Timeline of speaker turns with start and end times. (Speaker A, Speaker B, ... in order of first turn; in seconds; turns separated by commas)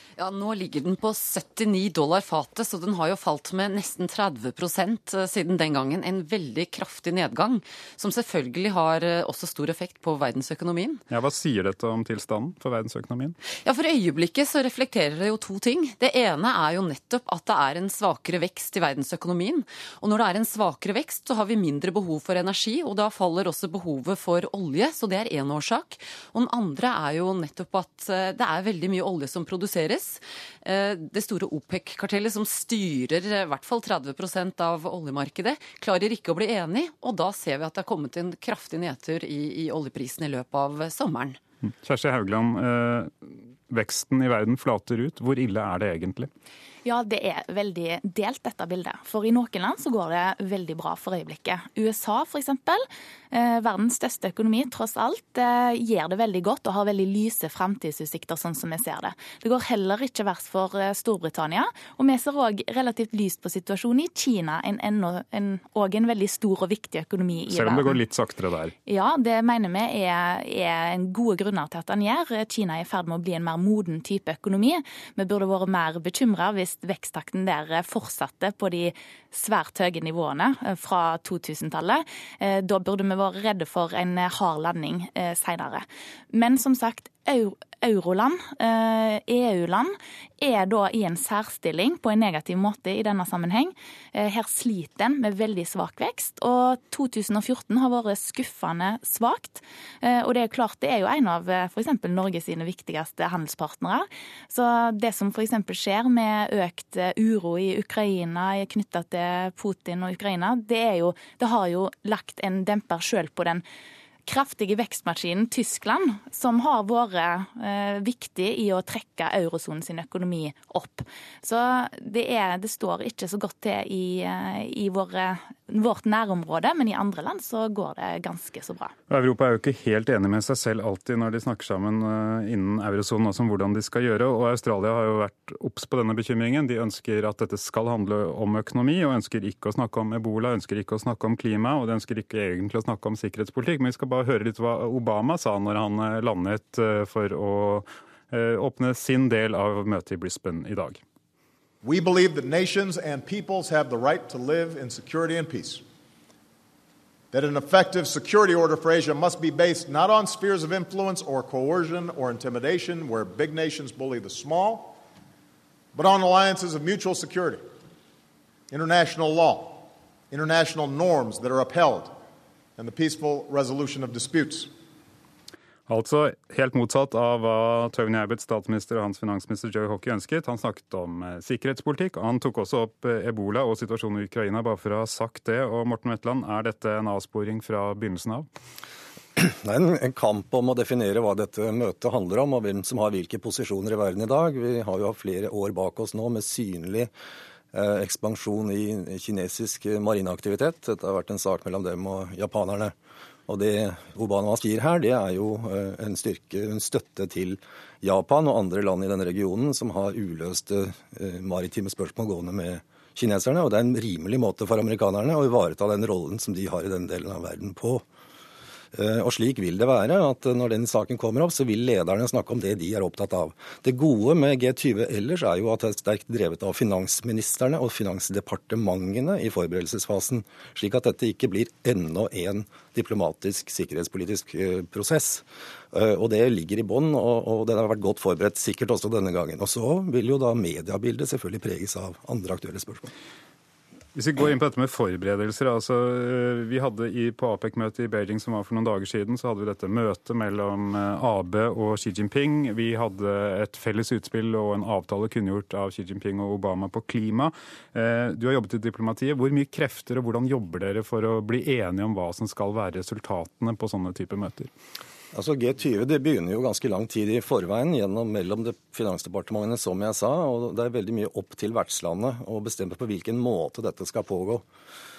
Speaker A: 0.2-11.0, Speaker B: 11.1-13.4, Speaker A: 13.6-41.4, Speaker B: 41.7-46.3, Speaker C: 46.9-68.0, Speaker B: 67.5-68.7, Speaker C: 68.9-113.6, Speaker C: 114.3-128.9, Speaker B: 129.1-151.0, Speaker D: 151.8-155.8, Speaker D: 157.3-165.0, Speaker D: 165.9-167.7, Speaker D: 168.7-172.2, Speaker D: 172.8-174.7, Speaker B: 175.9-188.5, Speaker E: 189.4-197.1, Speaker E: 197.7-202.9, Speaker E: 203.5-218.1, Speaker E: 218.9-243.1, Speaker B: 244.2-264.7, Speaker E: 265.3-274.6